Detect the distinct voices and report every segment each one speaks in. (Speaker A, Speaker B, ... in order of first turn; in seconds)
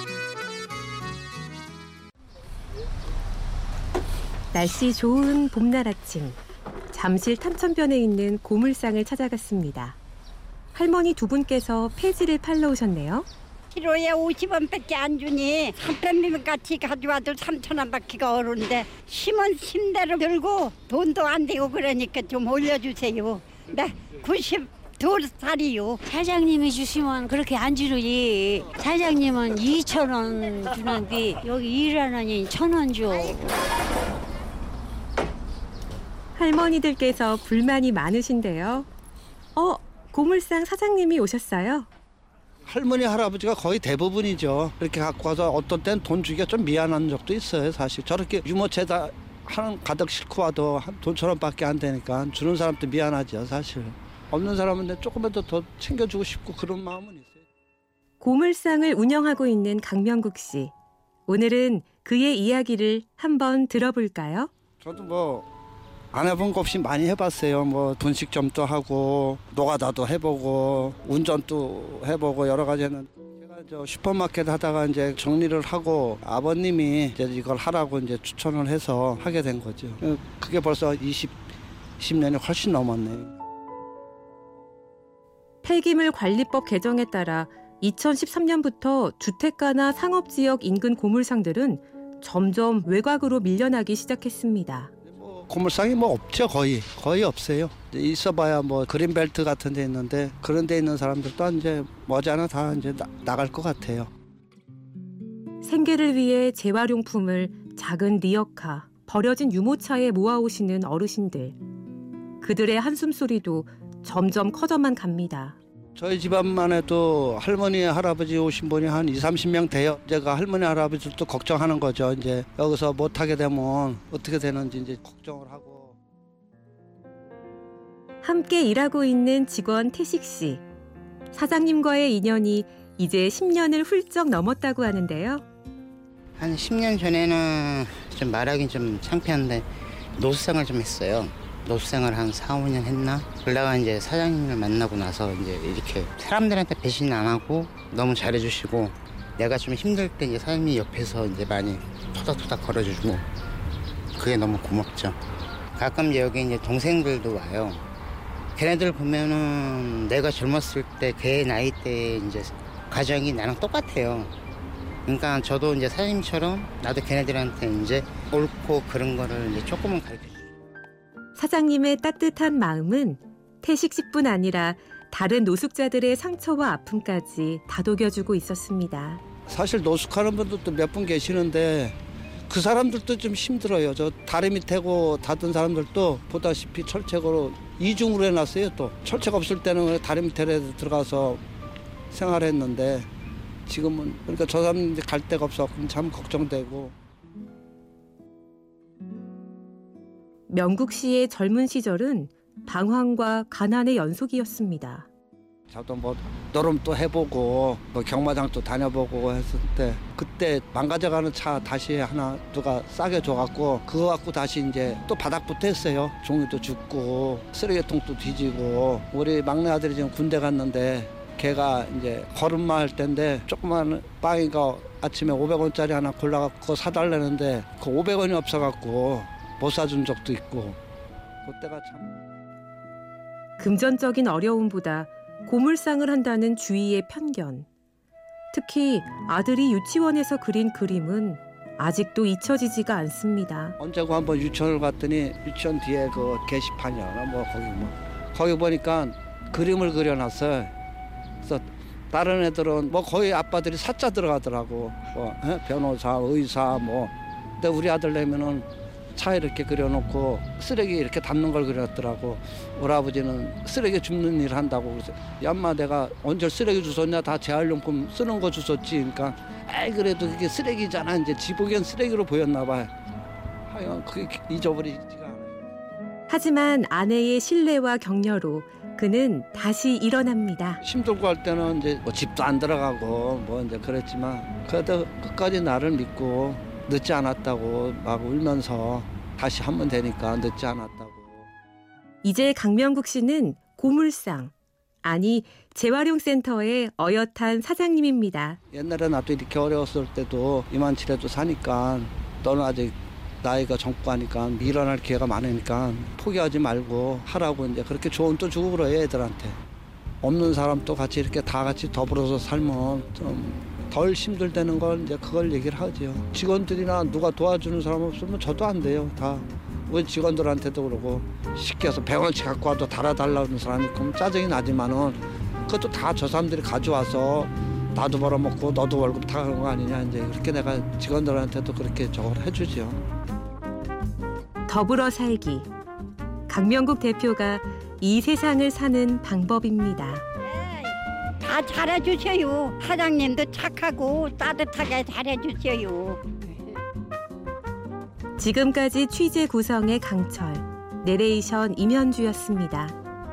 Speaker A: 4.5-6.4, 6.9-10.0, 10.7-13.3, 36.3-38.9, 39.5-41.9, 58.2-60.7, 61.3-64.5, 85.6-94.9, 105.6-111.5, 112.4-115.6, 128.2-130.6, 131.3-135.4, 171.3-179.2, 200.5-205.1, 233.6-237.7, 238.5-243.8, 276.3-280.8, 292.2-298.6, 334.7-335.7, 336.5-340.2, 348.4-353.0
Speaker B: 13.7-26.0, 340.4-346.2
Speaker C: 26.0-33.5
Speaker D: 42.6-57.4, 64.8-65.5, 66.1-81.4, 82.0-83.3, 95.1-104.1, 116.0-126.0, 179.5-182.0, 182.5-191.4, 192.1-193.1, 193.7-196.9, 205.7-230.8, 231.4-232.2, 243.8-250.7, 251.4-272.9, 273.7-275.5, 280.8-291.5, 298.7-309.6, 310.2-333.0
Speaker E: 136.4-153.2, 154.2-155.2, 155.8-157.8, 158.5-164.3, 165.1-170.5